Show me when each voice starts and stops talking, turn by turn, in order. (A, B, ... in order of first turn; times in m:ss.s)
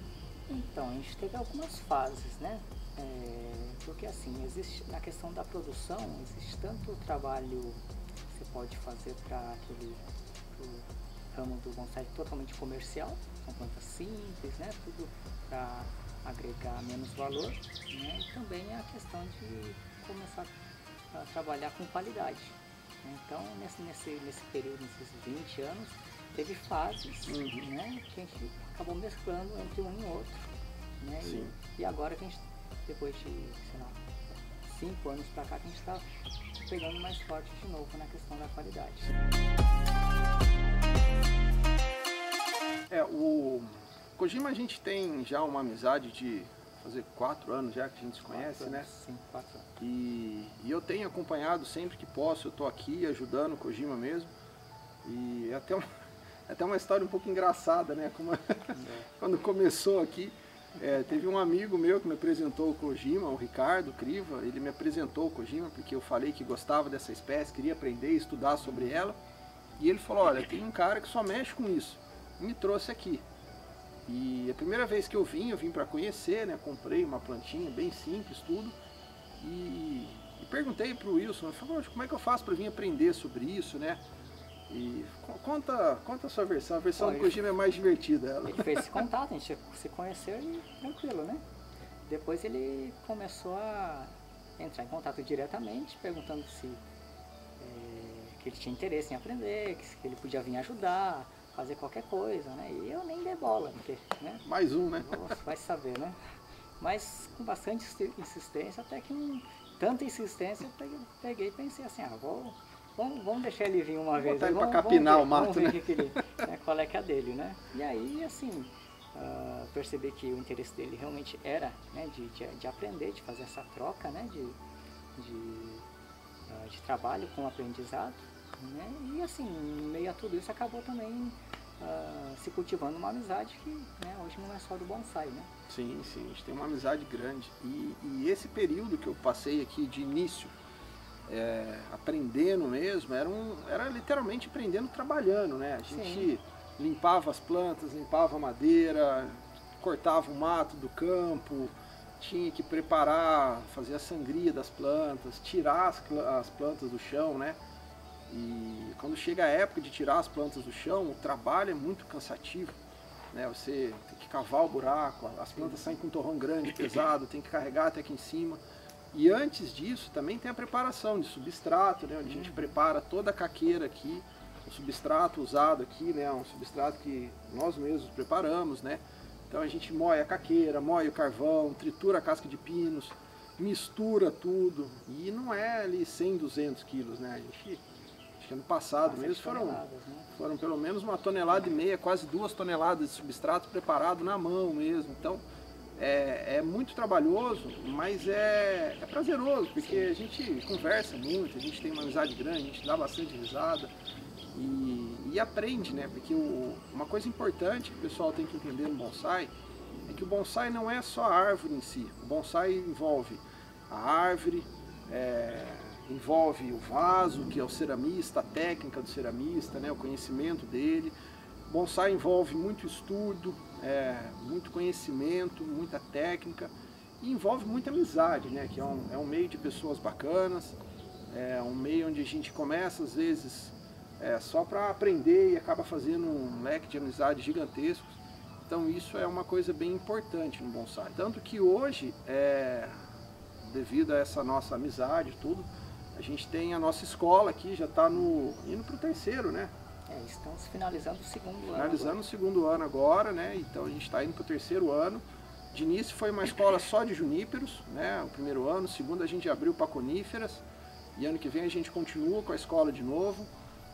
0:00.5-0:20.5 A
0:21.1-0:34.0 A
0:27.3-0:27.7 B
0:31.2-0:31.5 B
0:34.6-0:36.0 A
0:36.6-0:39.1 A
0:42.9-0:48.9 B
0:48.3-0:49.7 A
0:49.8-0:54.3 B
0:55.0-0:55.8 B
0:56.5-1:09.2 B
0:58.7-0:59.1 A
1:08.7-1:09.0 A
1:09.8-1:13.2 B
1:14.0-1:18.7 B
1:19.4-1:24.0 B
1:24.7-1:28.9 B
1:27.0-1:27.5 A
1:28.4-1:31.4 A
1:32.1-1:36.8 A
1:37.6-1:44.4 A
1:44.4-1:45.3 B
1:45.0-1:46.2 A
1:46.8-2:04.6 A
1:54.2-1:56.2 B
2:05.2-2:05.9 A
2:06.5-2:15.5 A
2:15.7-2:20.5 B
2:21.2-2:37.6 B
2:25.9-2:26.3 A
2:38.3-2:42.8 B
2:43.3-2:48.6 B
2:45.6-2:45.9 A
2:49.1-3:07.8 B
2:52.2-2:52.7 A
3:08.4-3:15.4 B
3:09.0-3:10.3 A
3:16.0-3:23.9 B
3:19.8-3:20.1 A
3:24.5-3:29.5 B
3:30.1-3:41.1 B
3:41.7-3:50.8 B
3:51.3-3:58.1 B
3:58.6-4:03.0 B
4:03.6-4:09.7 B
4:10.1-4:12.2 A
4:11.7-4:20.6 B
4:21.2-4:23.5 B